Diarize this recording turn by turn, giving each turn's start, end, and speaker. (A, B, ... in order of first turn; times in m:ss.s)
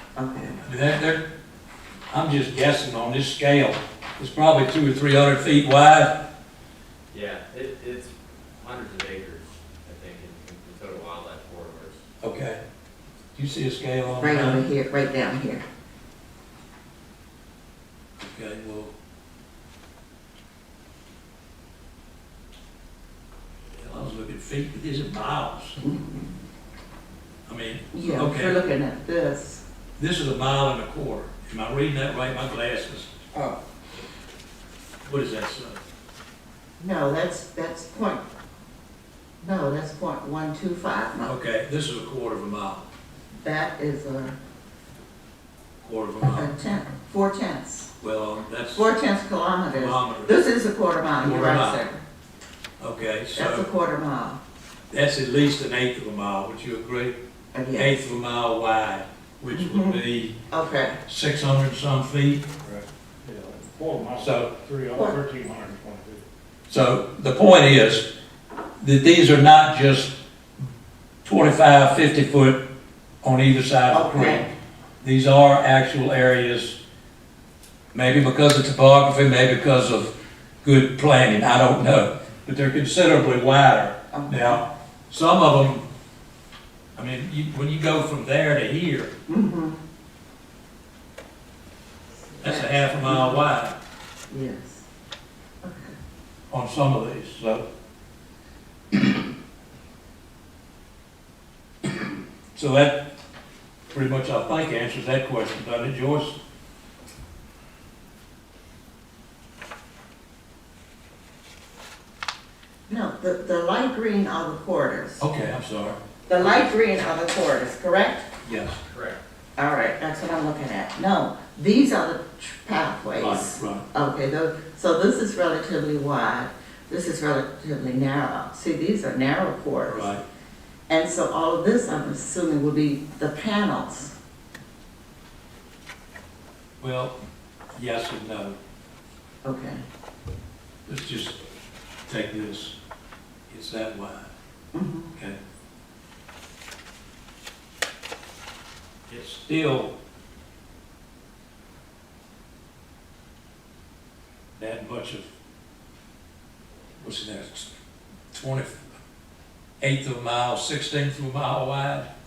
0:00.2-0:00.6 A
0:00.6-0:01.2 B
0:02.1-0:06.3 B
0:07.1-0:12.0 C
0:12.2-0:12.6 B
0:13.4-0:14.6 B
0:14.2-0:15.6 A
0:18.2-0:18.9 B
0:23.8-0:25.8 B
0:25.8-0:26.3 A
0:27.5-0:28.6 B
0:27.9-0:29.6 A
0:30.0-0:33.1 B
0:33.3-0:33.6 A
0:35.0-0:35.8 B
0:36.8-0:38.2 A
0:39.4-0:41.3 A
0:41.2-0:42.9 B
0:43.4-0:44.3 A
0:45.8-0:46.5 B
0:46.3-0:47.9 A
0:48.0-0:48.9 B
0:48.7-0:52.0 A
0:49.7-0:50.4 B
0:51.2-0:51.8 B
0:52.8-0:53.7 B
0:53.3-0:54.4 A
0:54.9-0:57.2 B
0:57.5-0:58.1 A
0:57.7-1:00.4 B
0:59.5-1:01.0 A
1:01.0-1:02.5 B
1:02.6-1:06.2 D
1:04.2-1:04.5 B
1:06.7-1:08.1 B
1:08.8-1:10.1 B
1:11.2-1:12.6 B
1:13.2-1:16.8 B
1:13.9-1:14.5 A
1:17.9-1:20.1 B
1:20.6-1:25.8 B
1:24.1-1:24.6 A
1:27.0-1:29.1 B
1:29.3-1:29.8 A
1:32.2-1:33.4 A
1:32.4-1:33.8 B
1:34.3-1:34.9 A
1:35.6-1:36.0 A
1:36.5-1:37.6 B
1:42.5-1:43.1 B
1:43.9-1:46.4 B
1:52.9-1:55.2 A
1:55.2-1:56.0 B
1:56.3-1:58.3 A
1:58.4-1:58.8 B
1:58.9-1:59.2 C
1:59.6-2:10.1 A
2:03.2-2:03.8 B
2:09.9-2:10.2 B
2:10.9-2:14.1 A
2:16.8-2:17.1 B
2:17.7-2:18.6 B
2:19.4-2:19.8 A
2:20.8-2:21.4 B
2:22.1-2:22.8 B
2:23.5-2:24.3 B
2:24.7-2:25.1 A
2:29.1-2:29.9 B
2:34.6-2:35.3 B
2:37.0-2:37.7 B
2:38.3-2:38.8 B
2:39.8-2:42.1 B